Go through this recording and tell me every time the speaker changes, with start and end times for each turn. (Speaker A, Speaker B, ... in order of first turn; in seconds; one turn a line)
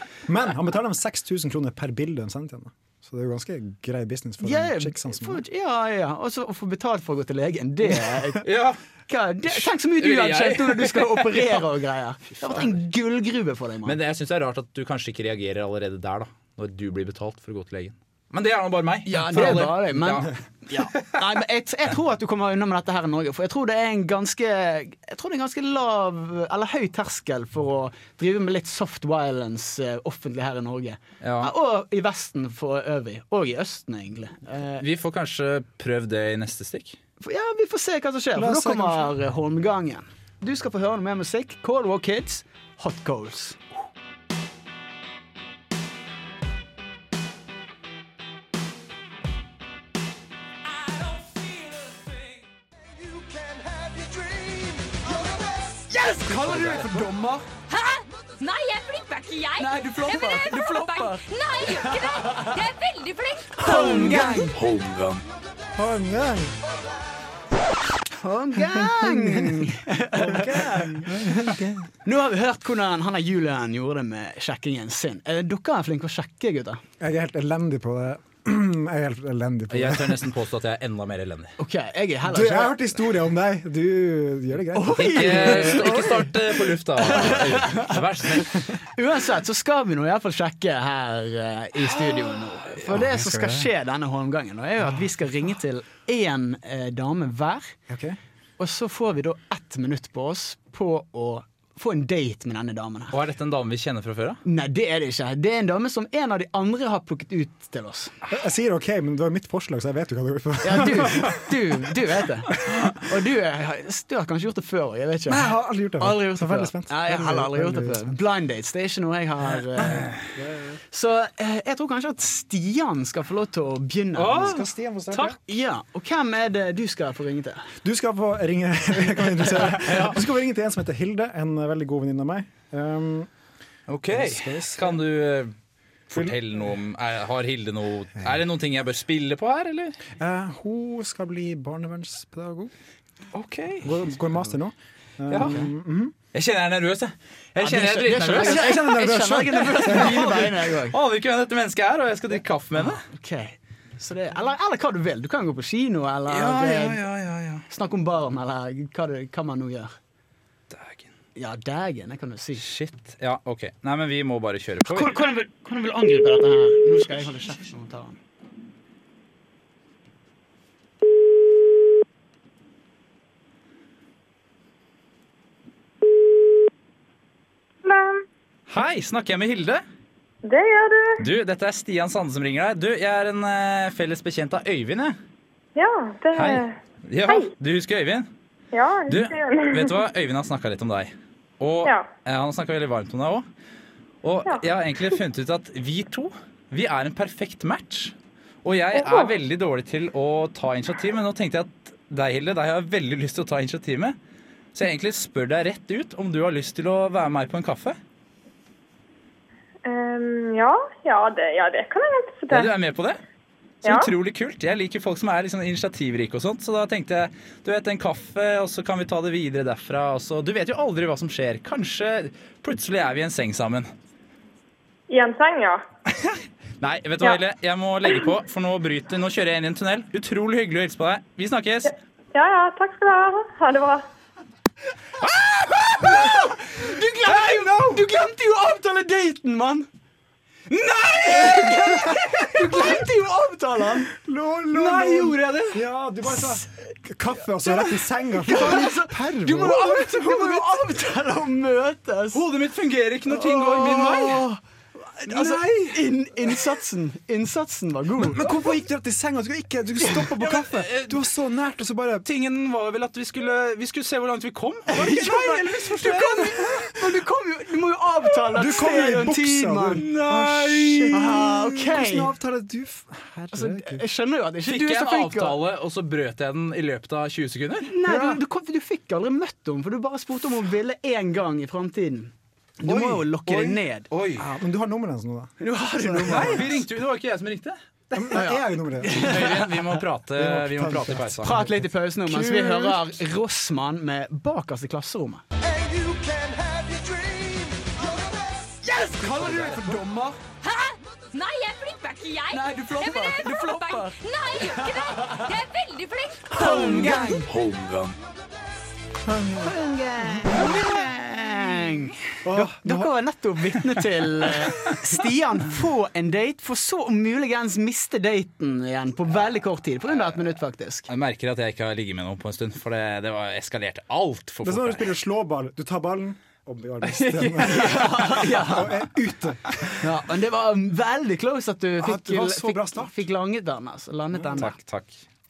Speaker A: 0.2-5.4
Speaker B: 4.4-8.4
Speaker C: 8.4-8.8
Speaker B: 9.1-13.9
Speaker C: 9.5-11.6
Speaker C: 12.4-12.7
Speaker C: 13.8-20.3
Speaker B: 19.1-34.8
Speaker C: 31.2-31.5
Speaker C: 34.8-37.0
Speaker B: 37.2-43.6
Speaker A: 38.3-39.1
Speaker D: 52.9-55.8
Speaker B: 55.9-57.4
Speaker A: 56.2-57.1
Speaker E: 57.7-64.2
Speaker B: 59.6-62.4
Speaker B: 63.5-64.6
Speaker A: 63.8-64.4
Speaker C: 64.5-65.2
Speaker A: 65.8-66.5
Speaker B: 68.2-71.2
Speaker A: 68.7-71.9
Speaker B: 72.0-76.8
Speaker A: 77.0-80.2
Speaker C: 79.7-81.5
Speaker B: 81.6-82.8
Speaker A: 82.3-86.0
Speaker B: 84.7-97.8
Speaker C: 84.9-88.7
Speaker A: 92.9-93.7
Speaker A: 97.9-98.2
Speaker B: 98.6-103.2
Speaker C: 103.1-104.4
Speaker B: 104.4-108.1
Speaker A: 108.3-111.5
Speaker B: 110.6-120.1
Speaker A: 115.3-118.1
Speaker A: 120.3-120.8
Speaker B: 120.9-124.6
Speaker C: 124.2-125.4
Speaker A: 124.3-125.4
Speaker B: 125.4-127.7
Speaker A: 127.8-133.3
Speaker C: 129.8-130.2
Speaker C: 133.9-135.5
Speaker A: 134.1-135.0
Speaker C: 136.1-140.0
Speaker A: 140.2-142.7
Speaker C: 143.3-144.0
Speaker A: 143.8-146.1
Speaker C: 145.3-145.6
Speaker C: 146.3-148.9
Speaker B: 147.6-150.9
Speaker A: 148.4-150.4
Speaker C: 149.6-153.0
Speaker B: 152.8-157.0
Speaker C: 156.3-157.6
Speaker B: 157.7-159.9
Speaker C: 160.7-161.1
Speaker B: 161.3-162.6
Speaker C: 162.6-165.2
Speaker B: 164.8-168.2
Speaker F: 177.8-178.2
Speaker C: 178.7-179.8
Speaker F: 180.4-181.2
Speaker C: 181.2-185.2
Speaker F: 185.8-186.7
Speaker C: 186.3-188.3
Speaker F: 188.7-190.0
Speaker C: 189.1-193.4
Speaker C: 194.2-204.2
Speaker F: 198.9-199.3
Speaker C: 204.7-208.0
Speaker F: 209.8-212.7
Speaker C: 212.5-213.2
Speaker C: 213.8-223.9
Speaker F: 213.8-214.1
Speaker F: 225.1-225.8
Speaker C: 226.2-231.9
Speaker F: 232.3-234.0
Speaker C: 235.2-236.4
Speaker B: 236.0-239.9
Speaker C: 237.2-238.1
Speaker B: 240.9-244.1
Speaker A: 241.8-242.3
Speaker A: 244.2-250.6
Speaker C: 244.7-245.8
Speaker B: 247.7-252.4
Speaker C: 252.3-254.4
Speaker B: 253.3-254.6
Speaker B: 255.2-258.5
Speaker A: 255.3-255.7
Speaker C: 255.4-255.9
Speaker A: 258.2-262.2
Speaker C: 260.2-261.2
Speaker C: 262.2-266.6
Speaker B: 264.9-270.0
Speaker A: 268.5-274.0
Speaker C: 270.0-271.2
Speaker B: 271.1-272.3
Speaker B: 273.5-275.6
Speaker C: 274.7-277.9
Speaker B: 277.9-284.1
Speaker A: 278.1-278.4
Speaker A: 282.9-283.7
Speaker C: 283.5-284.4
Speaker A: 284.4-286.8
Speaker B: 285.6-286.8
Speaker C: 286.3-287.8
Speaker A: 288.1-289.4
Speaker B: 288.3-289.9
Speaker C: 289.1-291.6
Speaker A: 290.3-292.9
Speaker B: 291.4-295.4
Speaker D: 295.6-298.8
Speaker B: 298.9-300.4
Speaker C: 299.4-299.7
Speaker E: 300.6-307.4
Speaker B: 302.5-304.2
Speaker B: 306.5-307.5
Speaker C: 306.6-308.1
Speaker B: 309.4-321.1
Speaker A: 312.4-313.1
Speaker C: 321.1-325.1
Speaker A: 324.6-329.9
Speaker C: 327.0-328.5
Speaker B: 327.6-328.9
Speaker B: 329.9-334.7
Speaker A: 332.0-333.1
Speaker C: 334.6-335.2